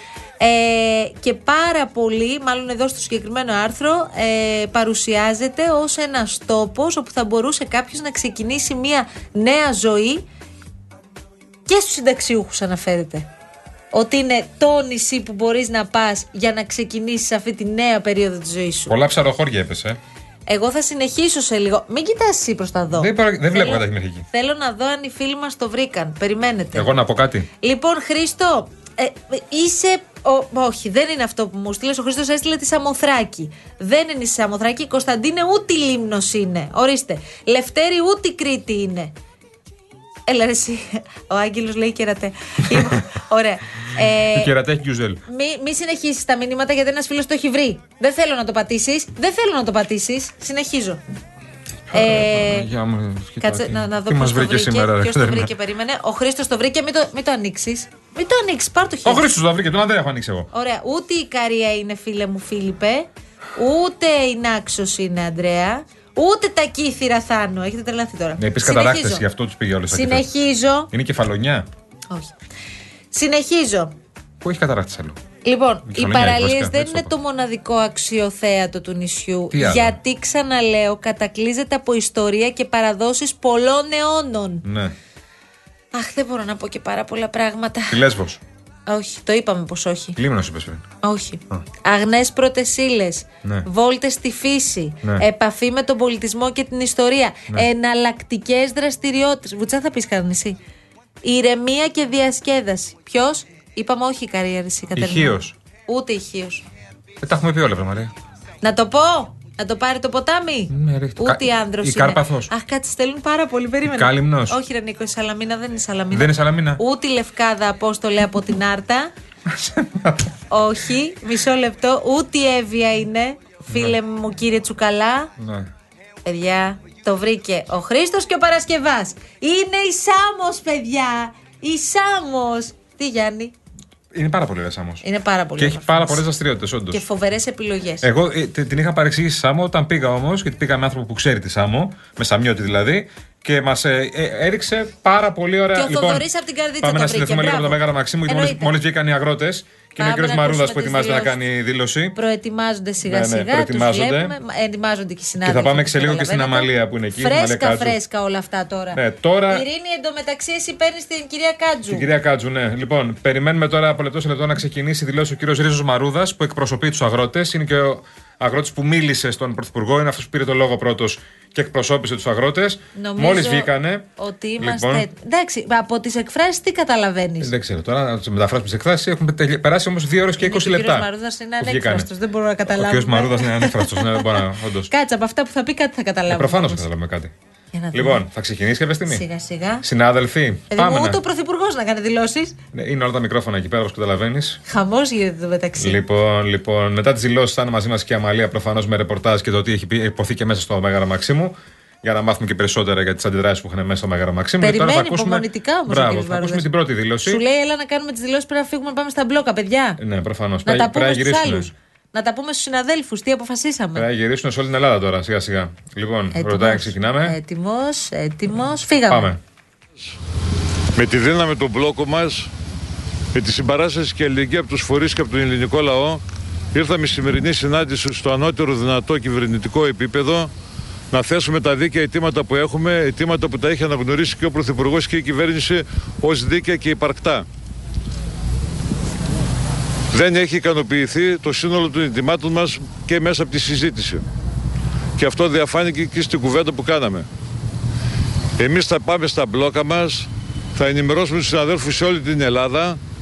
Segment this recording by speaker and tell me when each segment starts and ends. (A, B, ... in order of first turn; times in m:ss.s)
0:00.4-0:10.2 A
0:11.7-0:13.3 A
0:13.9-0:19.0 A
0:18.9-0:20.0 B
0:20.5-0:26.9 A
0:23.0-0:24.2 B
0:26.7-0:27.5 B
0:27.6-0:39.1 A
0:40.3-0:44.5 A
0:44.3-0:45.2 B
0:45.3-0:51.0 A
0:51.9-0:55.5 B
0:51.9-0:52.7 A
0:53.4-0:59.3 A
0:59.0-1:00.5 B
1:00.5-1:09.2 A
1:08.4-1:10.3 B
1:09.9-1:10.9 A
1:10.9-1:11.7 B
1:13.1-1:13.9 A
1:14.4-1:15.2 B
1:15.4-1:24.6 A
1:15.9-1:17.1 B
1:19.5-1:20.0 B
1:24.6-1:24.9 B
1:25.9-1:28.0 A
1:27.9-1:28.4 B
1:28.9-1:30.2 A
1:30.2-1:30.8 B
1:31.0-1:40.6 A
1:41.2-1:46.6 A
1:45.0-1:45.5 B
1:47.2-1:48.1 B
1:48.6-1:59.1 A
1:50.7-1:52.5 B
1:53.8-1:54.6 B
1:56.1-1:56.8 B
1:59.5-2:00.3 B
2:00.5-2:05.3 A
2:03.7-2:04.0 B
2:05.4-2:05.7 B
2:06.2-2:13.5 A
2:14.1-2:15.0 B
2:15.0-2:16.2 A
2:15.6-2:17.0 B
2:16.9-2:18.1 A
2:18.0-2:26.3 B
2:25.7-2:28.7 A
2:26.8-2:32.2 B
2:30.0-2:31.4 A
2:32.2-2:42.1 A
2:33.0-2:34.4 B
2:35.4-2:38.0 B
2:38.9-2:39.6 B
2:41.9-2:54.1 B
2:53.0-2:57.5 A
2:54.6-2:55.1 B
2:57.4-3:01.1 B
3:00.4-3:04.3 A
3:01.6-3:02.1 B
3:02.7-3:04.9 B
3:04.9-3:06.9 A
3:06.3-3:07.3 B
3:07.7-3:08.2 A
3:07.9-3:09.2 B
3:09.1-3:09.8 A
3:09.8-3:11.2 B
3:10.7-3:12.6 A
3:12.7-3:14.6 B
3:14.7-3:16.0 A
3:15.8-3:27.4 B
3:24.6-3:26.7 A
3:27.2-3:30.0 A
3:30.0-3:31.7 B
3:30.6-3:34.1 A
3:34.0-3:37.4 B
3:36.3-3:39.3 A
3:39.1-3:39.4 B
3:41.0-3:42.5 C
3:43.3-3:46.2 C
3:46.7-3:50.5 C
3:51.1-3:57.5 C
4:00.1-4:04.2 C
4:05.2-4:07.3 C
4:08.6-4:13.0 C